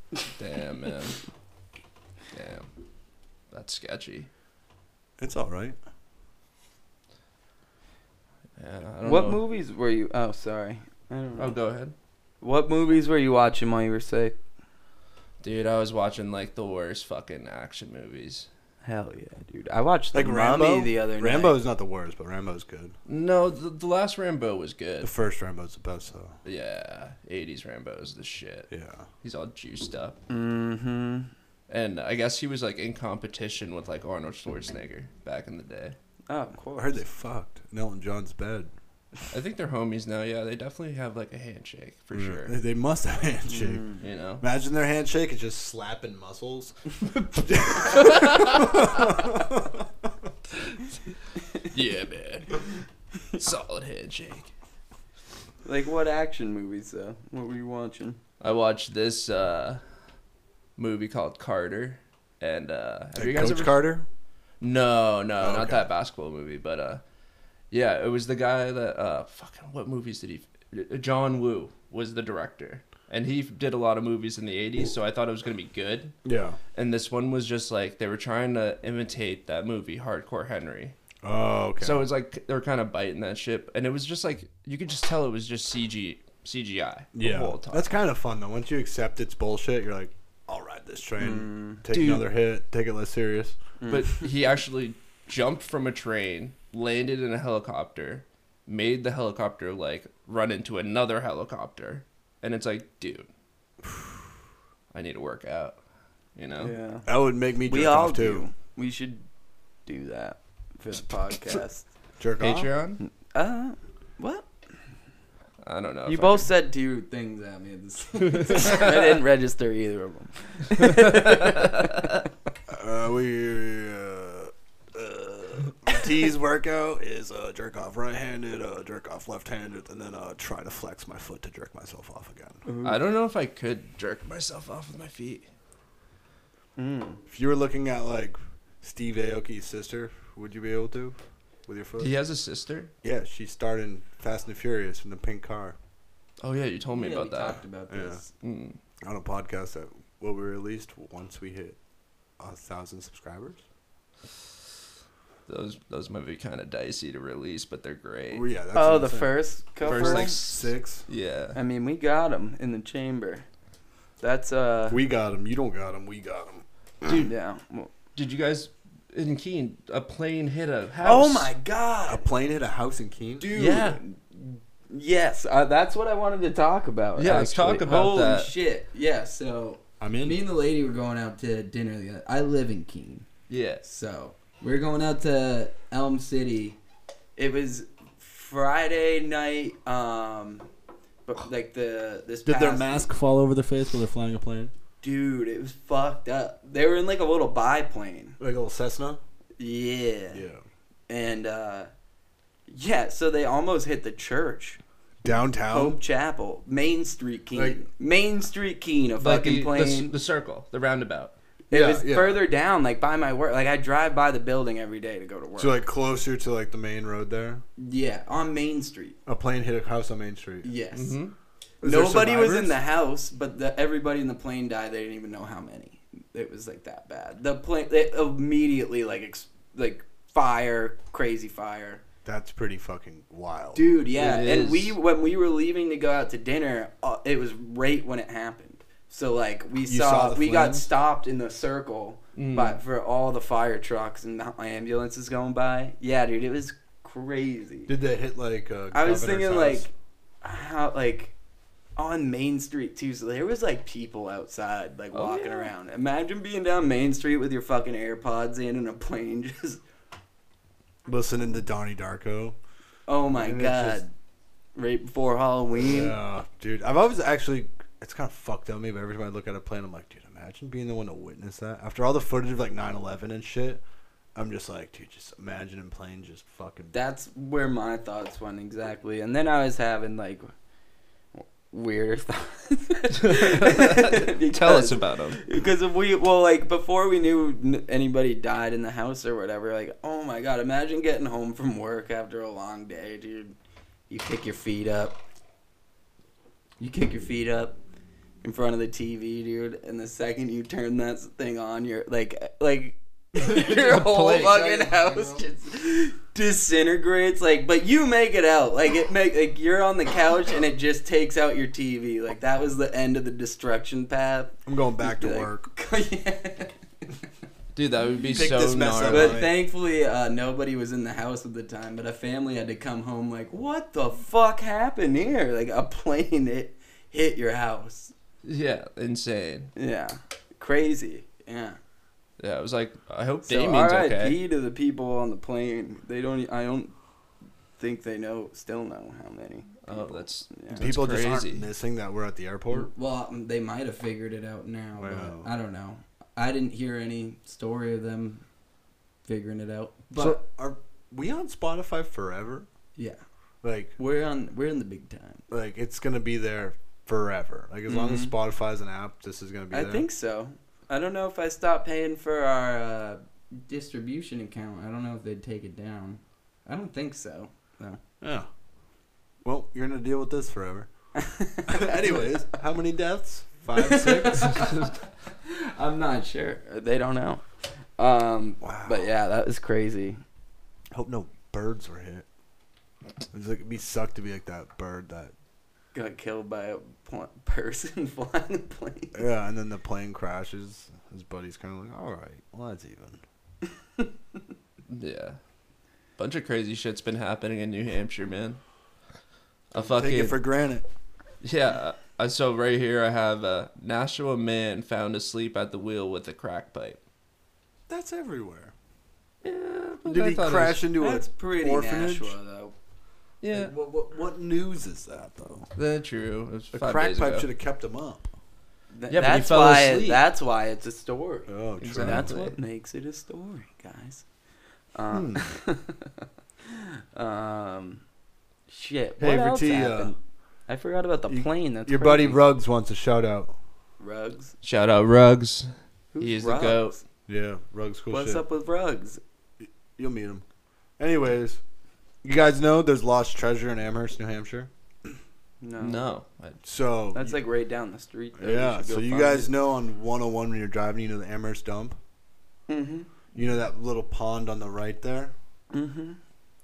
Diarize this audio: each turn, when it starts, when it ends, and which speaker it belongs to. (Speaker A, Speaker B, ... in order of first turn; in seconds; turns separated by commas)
Speaker A: 0.3-1.2, Speaker A: 2.3-2.7, Speaker A: 3.5-4.3, Speaker B: 5.2-5.8, Speaker A: 8.6-9.4, Speaker C: 9.0-11.6, Speaker A: 11.4-11.9, Speaker C: 12.4-14.4, Speaker A: 15.4-18.5, Speaker C: 18.8-21.6, Speaker B: 20.1-22.9, Speaker A: 23.1-25.1, Speaker B: 25.0-26.4, Speaker A: 26.4-28.7, Speaker B: 28.7-29.1, Speaker A: 29.2-30.2, Speaker C: 30.3-31.3, Speaker A: 31.7-36.0, Speaker C: 36.3-37.0, Speaker B: 36.8-38.7, Speaker A: 39.3-42.5, Speaker B: 42.1-43.9, Speaker C: 43.5-44.0, Speaker A: 44.0-44.4, Speaker B: 44.4-46.8, Speaker B: 47.3-49.9, Speaker A: 47.7-49.1, Speaker A: 51.6-52.7, Speaker A: 53.3-54.5, Speaker C: 55.6-58.2, Speaker A: 58.4-59.8, Speaker A: 60.8-63.8, Speaker B: 63.1-64.1, Speaker A: 64.6-67.0, Speaker B: 65.4-65.8, Speaker A: 67.7-76.1, Speaker B: 76.2-76.6, Speaker A: 76.7-80.9, Speaker B: 81.2-82.0, Speaker A: 81.8-87.9, Speaker B: 87.1-93.6, Speaker C: 91.2-91.8, Speaker A: 91.9-92.3, Speaker C: 93.8-94.3, Speaker A: 93.9-103.3, Speaker A: 104.9-105.8, Speaker A: 106.3-106.7, Speaker C: 106.6-107.1, Speaker B: 107.0-108.5, Speaker C: 107.7-109.2, Speaker C: 109.8-111.9, Speaker B: 112.2-112.7, Speaker A: 112.4-113.0, Speaker C: 113.0-114.5, Speaker A: 115.6-116.5, Speaker C: 116.0-122.2, Speaker A: 118.4-118.9, Speaker A: 120.8-121.6, Speaker B: 122.7-132.6, Speaker C: 132.6-133.0, Speaker A: 132.8-135.4, Speaker C: 136.8-137.2, Speaker B: 137.3-142.1, Speaker A: 142.0-142.9, Speaker B: 143.0-145.8, Speaker A: 146.4-147.6, Speaker C: 146.9-148.3, Speaker B: 147.9-148.2, Speaker A: 148.4-148.8, Speaker B: 149.0-151.8, Speaker B: 152.4-153.6, Speaker A: 155.5-158.4, Speaker B: 158.3-159.3, Speaker C: 158.7-160.4, Speaker A: 159.8-161.6, Speaker B: 159.9-161.0, Speaker C: 161.5-163.4, Speaker C: 164.2-165.0, Speaker B: 164.9-166.6, Speaker A: 167.0-167.3, Speaker C: 167.1-167.9, Speaker A: 168.1-171.5, Speaker C: 171.0-172.3, Speaker B: 172.1-173.5, Speaker C: 173.4-183.3, Speaker A: 173.5-174.0, Speaker A: 177.2-178.5, Speaker B: 180.0-180.4, Speaker A: 183.5-183.8, Speaker C: 183.8-186.8, Speaker C: 187.4-190.7, Speaker C: 191.3-193.1, Speaker B: 192.4-194.7, Speaker C: 195.0-198.4, Speaker B: 198.4-199.2, Speaker C: 199.6-200.4, Speaker B: 200.3-200.6, Speaker C: 201.1-201.9, Speaker C: 202.7-204.8, Speaker B: 205.2-206.0, Speaker C: 205.7-210.1, Speaker B: 207.5-207.8, Speaker A: 209.2-211.3, Speaker C: 211.7-215.8, Speaker B: 211.7-212.4, Speaker B: 215.6-217.6, Speaker C: 217.8-219.2, Speaker B: 219.2-220.7, Speaker C: 220.6-221.2, Speaker A: 220.9-221.3, Speaker B: 221.8-222.8, Speaker C: 221.8-232.0, Speaker B: 232.2-233.9, Speaker C: 233.7-247.9, Speaker A: 234.1-234.9, Speaker B: 239.8-240.9, Speaker A: 242.3-242.8, Speaker B: 247.9-249.9, Speaker C: 248.9-249.9, Speaker C: 250.4-251.3, Speaker C: 251.9-259.8, Speaker A: 255.1-255.7, Speaker B: 261.1-262.6, Speaker C: 263.1-264.1, Speaker B: 263.4-264.0, Speaker C: 264.8-266.1, Speaker B: 265.8-273.8, Speaker B: 274.3-276.9, Speaker C: 276.9-280.5, Speaker C: 281.3-293.5, Speaker A: 283.1-285.4, Speaker C: 294.1-295.2, Speaker C: 296.8-297.8, Speaker C: 298.4-316.8, Speaker A: 303.4-305.4, Speaker B: 314.6-315.7, Speaker A: 317.7-319.5, Speaker B: 318.3-319.6, Speaker C: 319.1-328.1, Speaker A: 328.4-329.7, Speaker C: 329.8-331.8, Speaker A: 332.4-334.4, Speaker C: 333.4-336.9, Speaker C: 337.8-340.8, Speaker A: 339.9-341.6, Speaker B: 340.8-342.9, Speaker C: 342.7-348.4, Speaker B: 345.0-345.5, Speaker C: 349.2-350.4, Speaker B: 350.1-352.7, Speaker B: 353.6-353.9, Speaker C: 354.0-355.4, Speaker B: 355.5-360.0, Speaker C: 357.9-358.3, Speaker C: 359.7-368.0, Speaker B: 368.2-368.5, Speaker B: 369.4-370.9, Speaker C: 371.1-372.3, Speaker B: 371.7-374.7, Speaker C: 373.8-377.4, Speaker C: 378.0-380.2, Speaker B: 378.6-379.1, Speaker B: 380.9-382.2, Speaker B: 383.3-385.3, Speaker C: 385.9-389.2, Speaker B: 389.1-393.2, Speaker A: 394.9-395.4, Speaker A: 396.2-398.6, Speaker A: 399.7-400.4, Speaker B: 399.7-400.9, Speaker A: 401.4-407.0, Speaker B: 407.9-408.7, Speaker A: 409.4-410.8, Speaker B: 410.0-412.4, Speaker C: 411.0-412.7, Speaker A: 413.4-413.7, Speaker B: 413.5-415.7, Speaker A: 415.8-417.5, Speaker B: 416.7-418.3, Speaker C: 418.9-424.2, Speaker A: 419.1-420.2, Speaker B: 421.5-422.4, Speaker A: 421.8-422.6, Speaker C: 424.9-428.0, Speaker B: 425.1-425.5, Speaker C: 428.7-430.2, Speaker B: 429.2-430.1, Speaker C: 430.7-432.4, Speaker B: 431.3-433.5, Speaker C: 434.0-434.5, Speaker A: 434.6-437.0, Speaker C: 436.1-437.0, Speaker B: 437.3-438.4, Speaker C: 438.1-439.2, Speaker B: 439.6-440.4, Speaker B: 441.0-441.6, Speaker B: 442.2-445.2, Speaker C: 445.6-446.0, Speaker A: 445.8-446.6, Speaker B: 446.6-447.4, Speaker C: 447.1-449.5, Speaker B: 448.4-452.0, Speaker C: 452.7-453.1, Speaker B: 453.3-455.3, Speaker C: 455.7-456.2